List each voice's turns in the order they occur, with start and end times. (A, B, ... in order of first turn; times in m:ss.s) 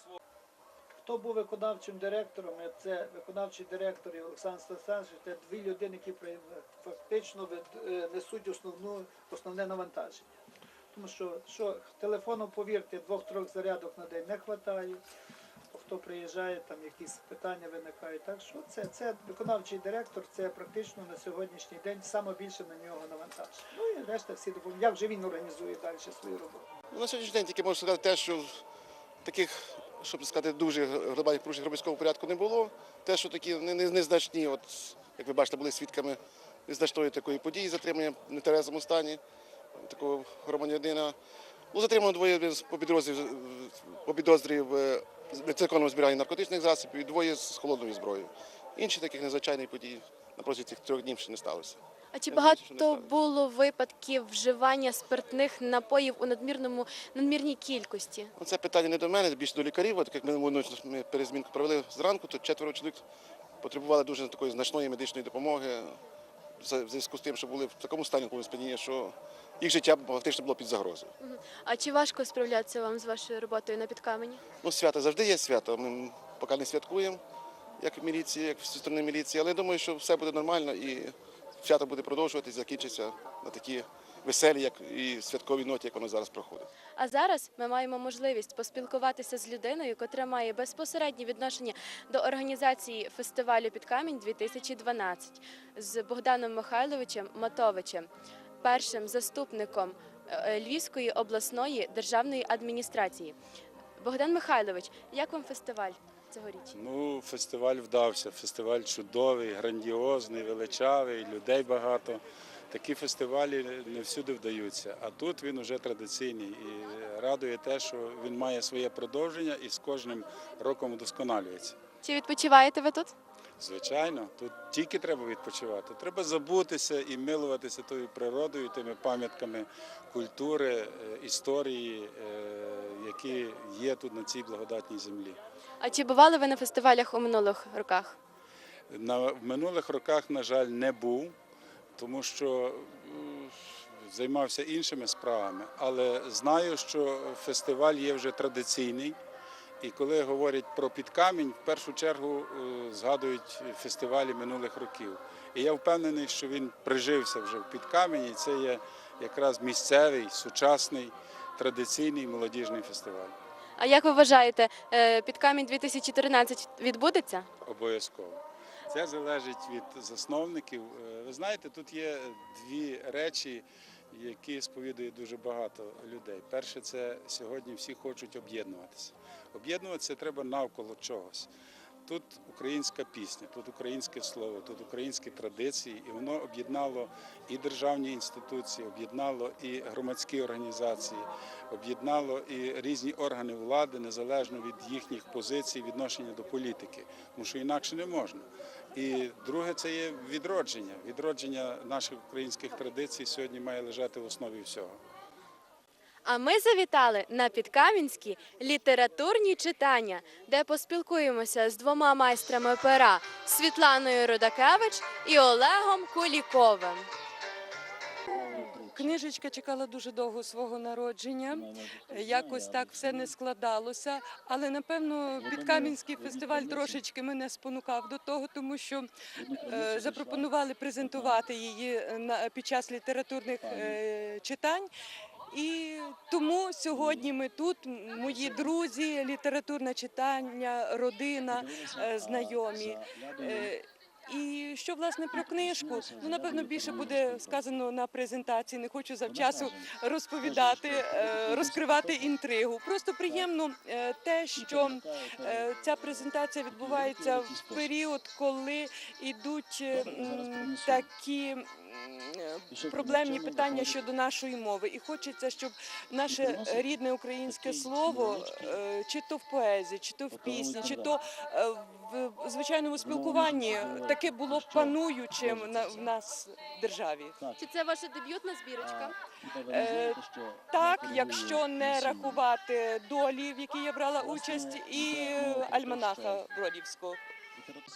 0:01.0-0:10.3 A
0:10.9-0:15.0 A
0:15.7-0:26.7 A
0:26.9-0:28.6 B
0:29.2-0:39.2 B
0:39.8-0:41.2 B
0:41.7-0:53.2 B
0:52.1-0:58.3 C
0:58.4-1:03.0 B
1:03.6-1:06.0 B
1:06.6-1:11.1 B
1:11.2-1:14.4 C
1:14.6-1:17.2 B
1:17.8-1:26.7 B
1:27.0-1:38.1 C
1:38.6-1:43.4 C
1:44.0-1:46.8 C
1:46.7-2:01.8 D
2:02.0-2:03.1 C
2:03.6-2:15.4 D
2:15.8-2:18.2 C
2:18.9-2:21.4 D
2:22.0-2:29.2 D
2:29.8-2:43.4 D
2:43.8-2:47.5 C
2:47.6-3:01.5 D
3:02.1-3:25.0 D
3:26.2-3:37.1 C
3:38.3-3:49.1 E
3:49.6-3:54.9 E
3:55.5-4:37.4 E
4:37.6-4:39.2 C
4:39.7-4:47.2 E